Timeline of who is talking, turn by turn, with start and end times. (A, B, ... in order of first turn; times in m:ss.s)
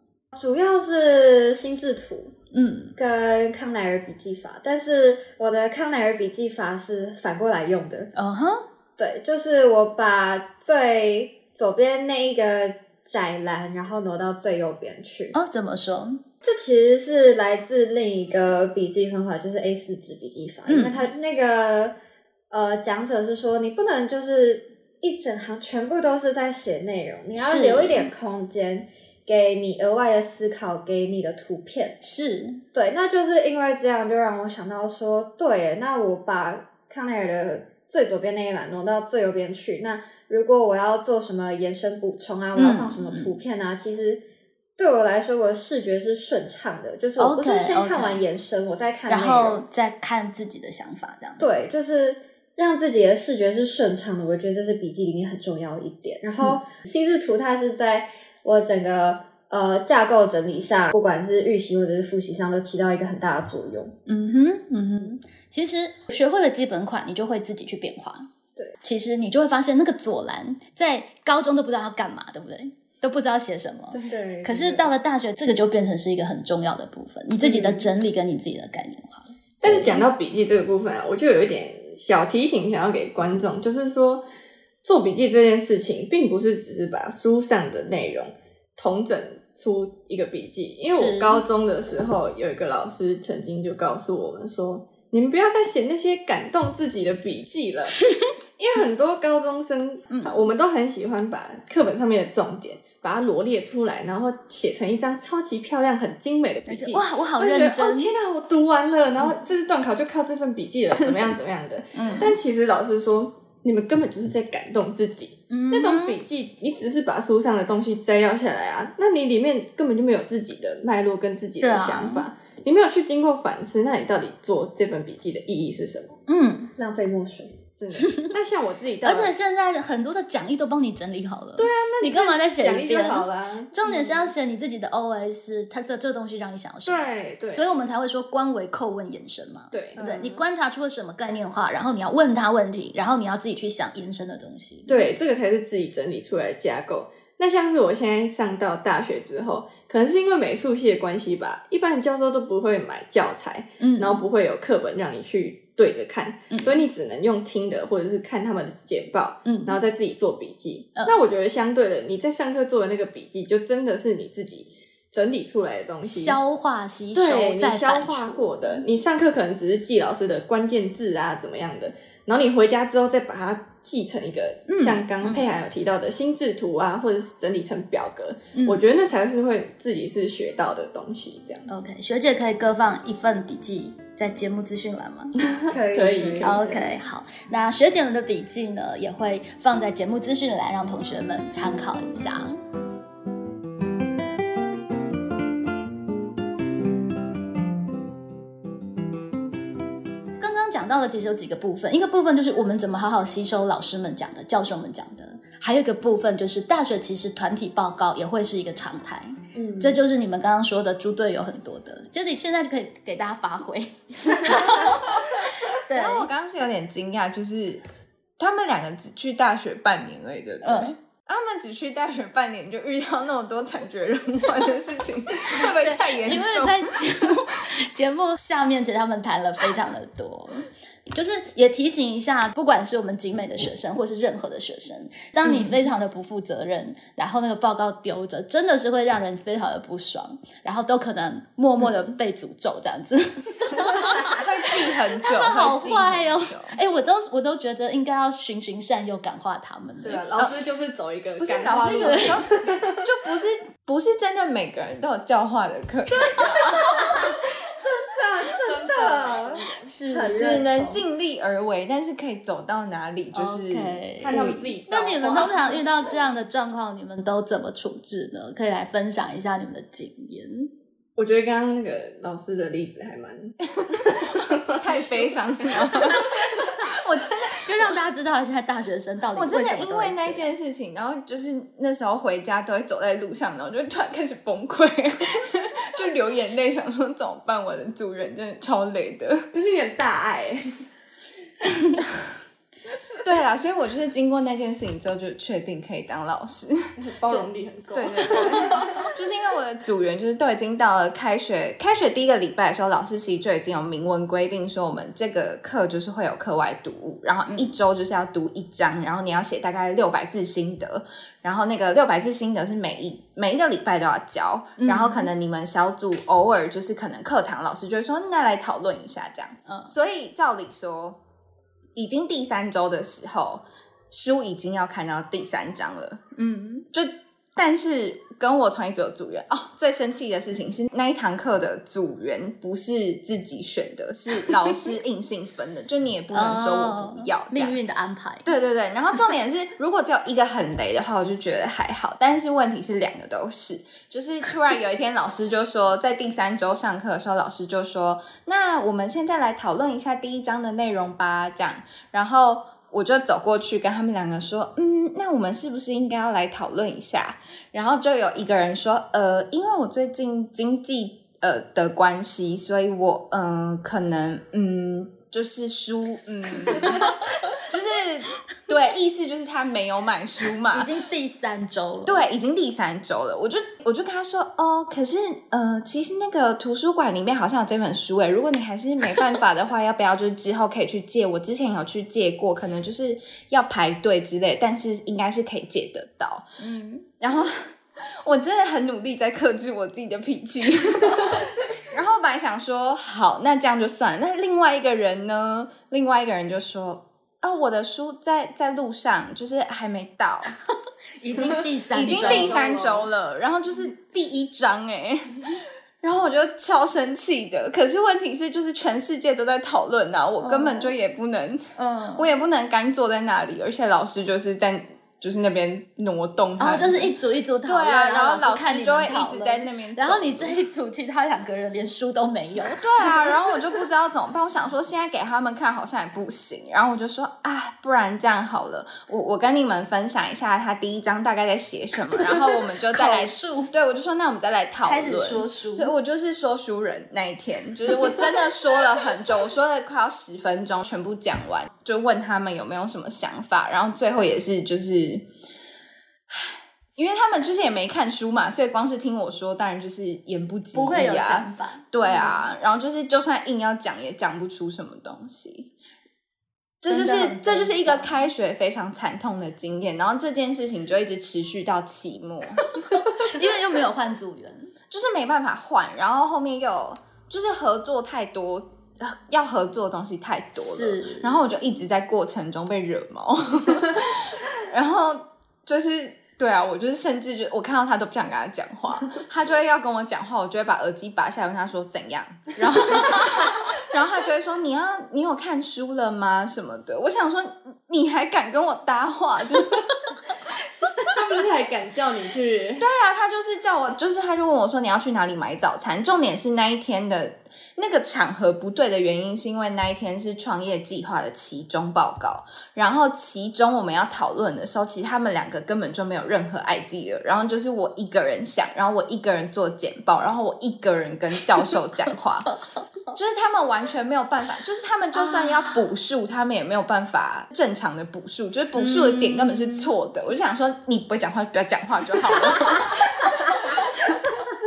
0:00.3-0:02.4 A
0:02.5-0:03.0 B
0:03.0-0:08.1 A
0:08.2-0:08.6 B
0:09.0-0:15.4 A
0:15.3-0:16.2 B
0:16.4-0:22.0 A
0:20.7-0:21.1 B
0:22.5-0:32.0 A
0:27.4-0:28.1 B
0:32.0-0:32.6 B
0:32.7-0:44.2 A
0:42.6-0:43.3 B
0:44.8-0:49.6 A
0:47.2-0:48.2 B
0:49.1-0:51.5 B
0:51.4-1:04.0 A
1:04.1-1:08.3 B
1:08.8-1:20.0 B
1:14.0-1:14.9 A
1:17.4-1:17.9 A
1:19.6-1:24.2 C
1:24.8-1:38.0 C
1:30.8-1:31.4 B
1:38.6-2:06.1 C
1:40.1-1:40.5 B
1:46.7-1:48.1 B
1:52.0-1:52.4 B
1:55.5-1:56.2 B
2:01.6-2:02.3 B
2:06.3-2:06.7 B
2:06.8-2:07.5 A
2:07.8-2:09.3 C
2:08.0-2:08.3 B
2:09.0-2:25.0 B
2:11.6-2:14.2 C
2:16.9-2:17.7 C
2:19.7-2:20.1 C
2:20.0-2:20.3 A
2:24.9-2:46.4 C
2:33.8-2:34.2 B
2:36.5-2:36.8 B
2:39.4-2:39.8 B
2:46.0-2:48.8 B
2:47.2-3:01.7 C
2:54.7-2:55.5 B
2:58.5-2:58.8 B
3:01.7-3:05.4 B
3:05.4-3:06.7 C
3:05.7-3:06.9 A
3:06.4-3:12.6 B
3:20.4-3:35.3 B
3:29.6-3:30.0 A
3:35.8-3:36.3 B
3:35.9-3:37.8 D
3:38.4-3:47.0 D
3:40.6-3:41.0 B
3:45.6-4:04.4 B
4:04.2-4:06.8 D
4:05.2-4:10.2 B
4:10.0-4:13.0 C
4:11.4-4:17.2 D
4:11.9-4:12.4 B
4:16.8-4:21.0 A
4:18.6-4:19.9 C
4:19.8-4:20.6 B
4:20.3-4:24.7 D
4:23.3-4:30.7 B
4:24.2-4:25.9 C
4:31.2-4:35.1 C
4:33.8-4:38.0 D
4:35.6-4:36.8 C
4:37.7-4:40.5 B
4:39.4-4:49.5 D
4:49.5-4:50.8 C
4:52.0-4:52.3 D
4:53.2-4:56.9 D
4:57.0-4:58.9 C
4:57.9-5:21.2 D
4:58.4-4:58.8 B
5:07.5-5:07.7 B
5:14.8-5:15.3 B
5:19.7-5:19.9 B
5:22.0-5:26.2 D
5:26.4-5:26.9 B
5:26.9-5:37.8 D
5:36.3-5:38.5 B
5:38.4-6:10.9 D
6:06.8-6:07.1 B
6:10.7-6:12.2 B
6:12.1-6:26.5 D
6:26.6-6:27.1 B
6:27.2-6:40.6 D
6:41.2-6:42.6 B
6:42.0-6:57.1 D
6:42.0-6:43.1 C
6:50.4-6:50.9 B
6:51.8-6:52.3 B
6:56.6-7:02.9 B
6:57.6-7:00.6 D
7:02.8-7:25.3 D
7:12.9-7:13.7 B
7:14.8-7:15.9 B
7:26.3-7:35.7 D
7:30.7-7:32.4 B
7:36.8-7:42.7 D
7:36.9-7:38.2 B
7:42.7-7:44.7 B
7:44.9-8:09.9 D
7:50.6-7:51.4 B
8:11.0-8:12.9 C
8:12.8-8:32.6 D
8:33.1-8:44.2 D
8:35.2-8:35.8 B
8:38.8-8:39.9 B